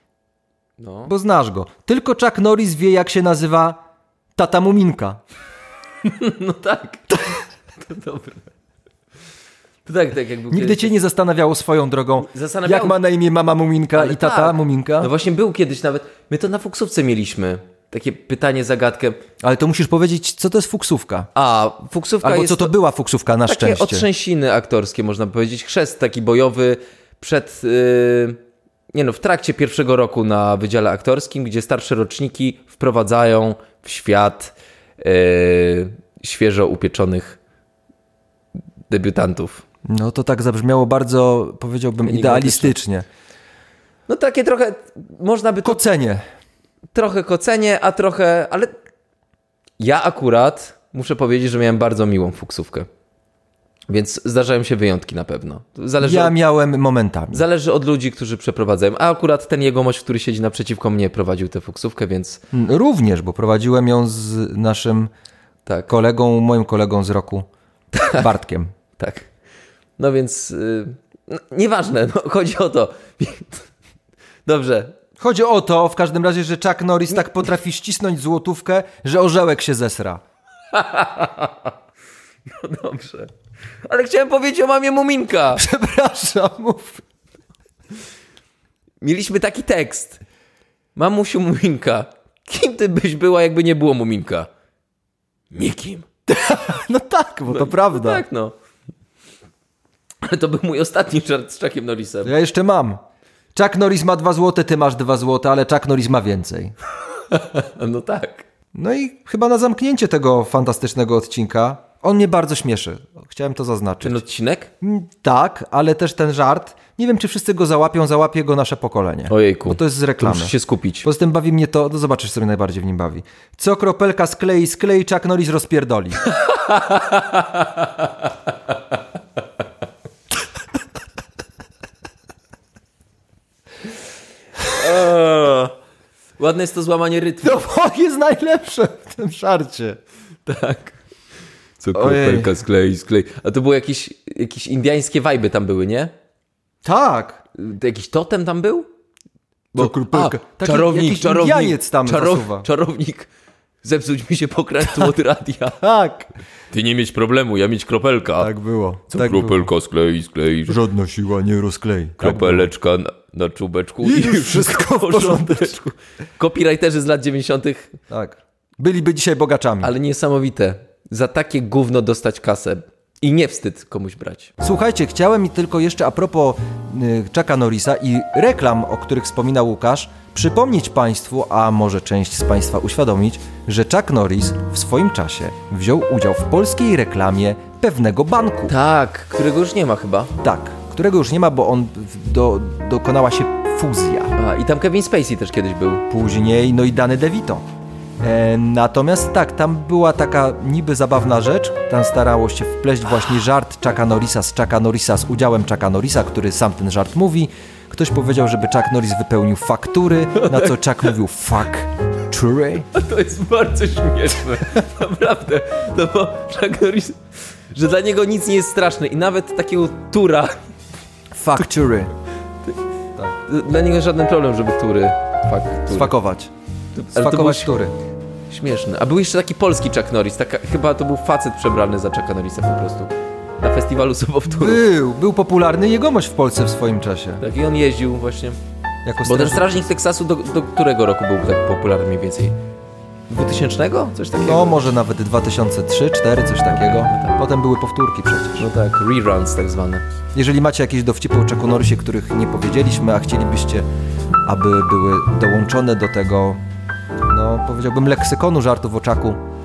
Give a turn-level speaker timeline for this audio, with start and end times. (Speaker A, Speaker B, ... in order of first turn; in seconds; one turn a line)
Speaker A: 0.8-1.1
Speaker B: 1.1-3.8
Speaker B: 4.3-5.2
Speaker A: 6.0-8.4
Speaker A: 9.8-10.9
Speaker B: 10.5-15.1
Speaker A: 12.2-13.0
Speaker A: 13.9-19.2
Speaker B: 19.4-21.3
Speaker A: 21.3-22.7
Speaker B: 22.2-24.1
Speaker A: 23.4-28.4
Speaker A: 28.9-37.4
Speaker A: 38.9-39.6
Speaker B: 39.9-43.0
Speaker A: 42.0-42.8
Speaker A: 44.1-45.8
Speaker B: 45.6-46.2
Speaker A: 46.9-48.7
Speaker A: 49.8-52.9
Speaker A: 53.9-56.3
Speaker B: 56.0-57.4
Speaker A: 57.3-62.4
Speaker B: 62.5-65.1
Speaker A: 65.7-65.9
Speaker B: 65.9-67.4
Speaker A: 67.9-68.3
Speaker B: 68.1-68.7
Speaker A: 69.0-69.3
Speaker A: 70.0-73.7
Speaker A: 74.5-74.9
Speaker B: 75.2-80.2
Speaker A: 80.7-81.7
Speaker A: 82.6-83.3
Speaker A: 83.8-85.6
Speaker B: 85.5-87.0
Speaker A: 89.0-90.2
Speaker A: 90.9-94.5
Speaker A: 95.5-96.1
Speaker B: 96.3-98.2
Speaker A: 97.5-98.5
Speaker A: 100.2-102.3
Speaker B: 102.2-103.0
Speaker B: 103.5-106.7
Speaker A: 107.3-108.4
Speaker B: 108.7-114.2
Speaker A: 114.0-114.7
Speaker B: 114.8-126.2
Speaker A: 119.3-121.1
Speaker A: 126.3-128.2
Speaker A: 134.7-135.7
Speaker A: 136.4-137.6
Speaker B: 137.4-140.0
Speaker A: 140.4-141.0
Speaker A: 141.8-146.1
Speaker B: 141.9-142.5
Speaker B: 146.8-147.4
Speaker A: 147.5-148.9
Speaker B: 149.7-152.7
Speaker A: 149.7-153.3
Speaker A: 153.8-155.8
Speaker B: 155.8-156.3
Speaker A: 156.7-158.5
Speaker B: 158.4-159.7
Speaker A: 159.1-160.8
Speaker B: 160.7-162.7
Speaker A: 162.2-167.9
Speaker B: 164.0-165.8
Speaker B: 168.1-169.9
Speaker A: 169.8-174.5
Speaker B: 174.6-188.7
Speaker A: 188.7-190.3
Speaker B: 190.4-194.3
Speaker A: 194.3-196.0
Speaker B: 196.1-197.6
Speaker B: 198.2-212.9
Speaker A: 210.4-210.8
Speaker A: 212.9-217.2
Speaker A: 217.7-220.6
Speaker B: 221.3-222.1
Speaker A: 223.4-226.1
Speaker B: 225.9-226.5
Speaker A: 226.9-227.7
Speaker B: 227.1-227.9
Speaker A: 228.5-234.8
Speaker B: 234.5-237.4
Speaker A: 237.4-238.6
Speaker B: 239.0-239.8
Speaker A: 239.2-242.5
Speaker A: 243.3-244.8
Speaker B: 244.4-248.7
Speaker A: 246.7-247.4
Speaker A: 248.6-250.0
Speaker B: 250.3-253.8
Speaker B: 254.4-256.6
Speaker B: 257.3-259.4